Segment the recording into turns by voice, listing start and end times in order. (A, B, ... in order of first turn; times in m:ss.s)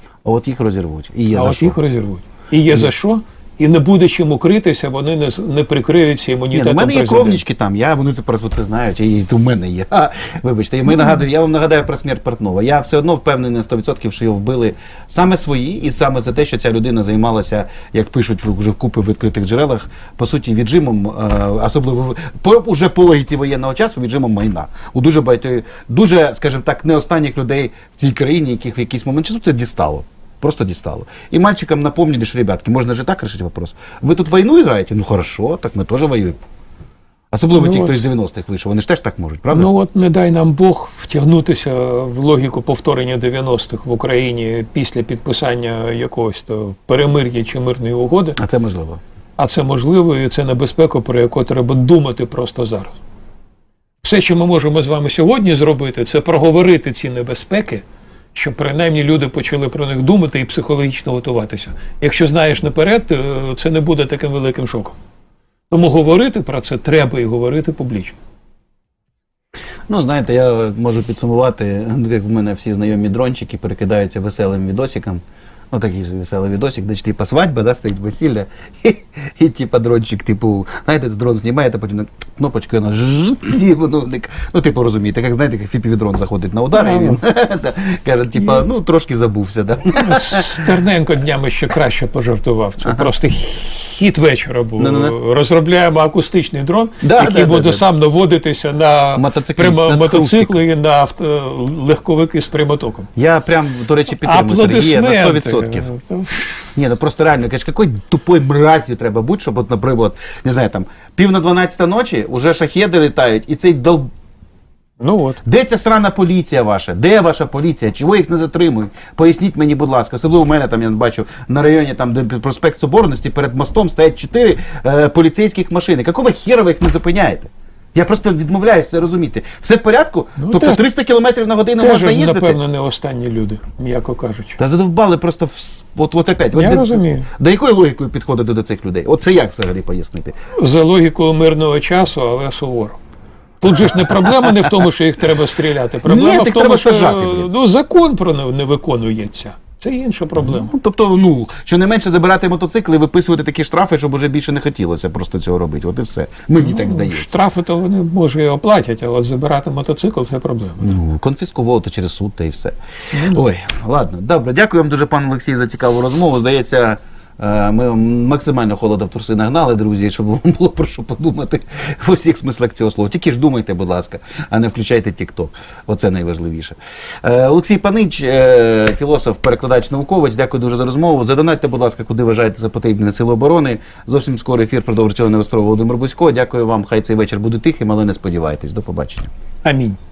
0:00.2-0:01.8 A
0:01.3-0:07.4 B
0:06.5-0:36.4 A
0:37.3-0:39.7 A
0:37.5-0:38.0 B
0:39.5-0:48.4 B
0:48.4-0:49.0 A
0:49.4-0:53.0 B
0:54.0-0:57.8 B
0:58.3-1:05.0 B
1:05.7-1:08.2 B
1:09.9-1:30.6 A
1:26.7-1:27.2 B
1:29.9-1:43.1 B
1:32.8-1:33.1 A
1:34.8-1:35.1 A
1:37.0-1:37.8 A
1:39.1-1:40.6 A
1:43.2-1:45.9 A
1:44.2-1:46.7 B
1:46.7-1:54.1 A
1:55.0-1:55.4 B
1:55.4-2:12.6 A
2:10.4-2:10.8 B
2:11.8-2:14.6 B
2:14.6-2:20.4 A
2:16.5-2:17.3 B
2:20.5-2:23.0 B
2:23.6-2:30.7 B
2:26.0-2:27.5 A
2:30.4-2:37.4 A
2:36.6-2:40.9 B
2:40.8-3:09.3 A
2:43.1-2:43.4 B
3:09.6-3:10.0 B